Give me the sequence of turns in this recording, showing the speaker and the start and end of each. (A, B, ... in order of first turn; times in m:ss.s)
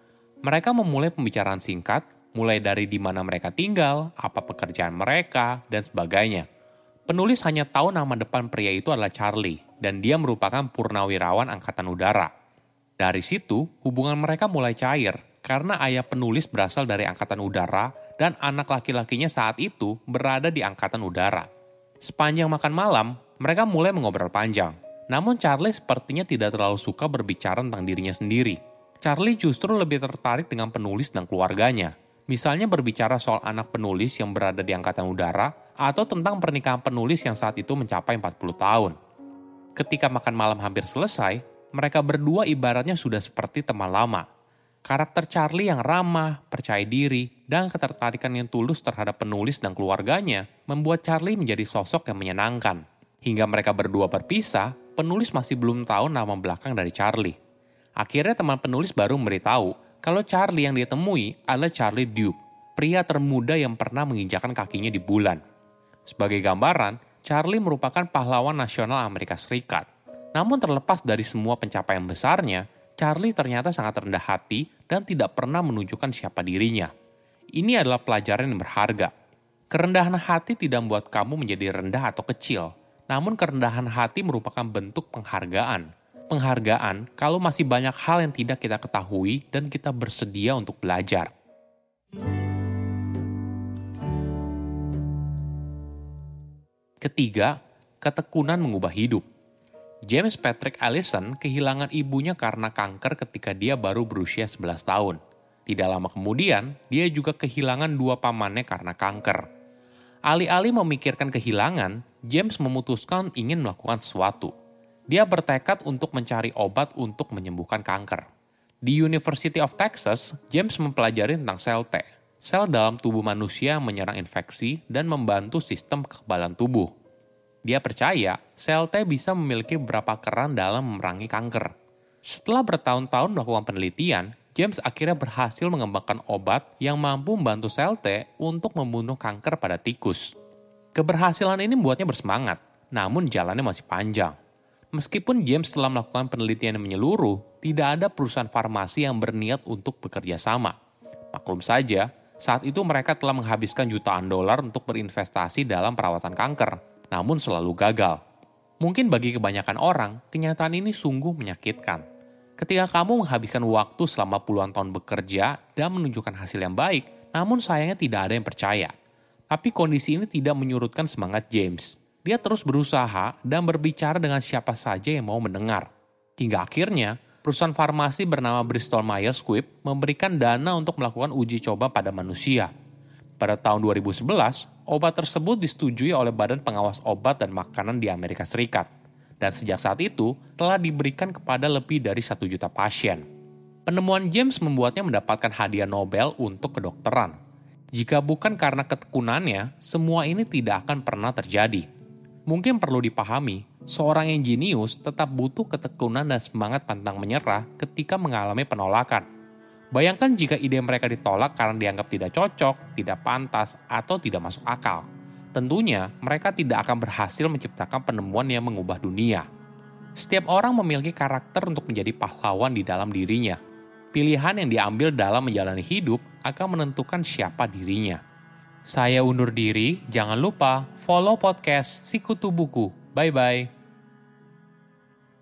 0:00.4-0:06.4 A
0:07.1-0:12.3 A
0:13.0-0:21.5 A
0:22.0-0:38.9 A
0:39.7-0:44.2 A
0:44.8-0:57.4 A
0:58.0-1:05.4 A
1:06.1-1:16.9 A
1:17.6-1:19.1 A
1:19.7-1:31.3 A
1:37.0-1:39.2 A
1:40.0-1:49.4 A
1:50.3-1:54.5 A
1:55.1-1:58.2 A
1:58.8-2:06.9 A
2:07.6-2:11.7 A
2:12.2-2:20.3 A
2:20.9-2:24.3 A
2:24.9-2:30.7 A
2:31.3-2:38.2 A
2:38.8-2:42.0 A
2:42.6-2:48.9 A
2:49.5-2:55.9 A
2:56.4-3:02.7 A
3:03.4-3:08.9 A
3:09.4-3:13.2 A
3:13.8-3:17.4 A
3:17.9-3:21.8 A
3:22.5-3:29.2 A
3:29.9-3:39.4 A
3:40.2-3:43.6 A
3:44.1-3:48.2 A
3:48.9-3:53.7 A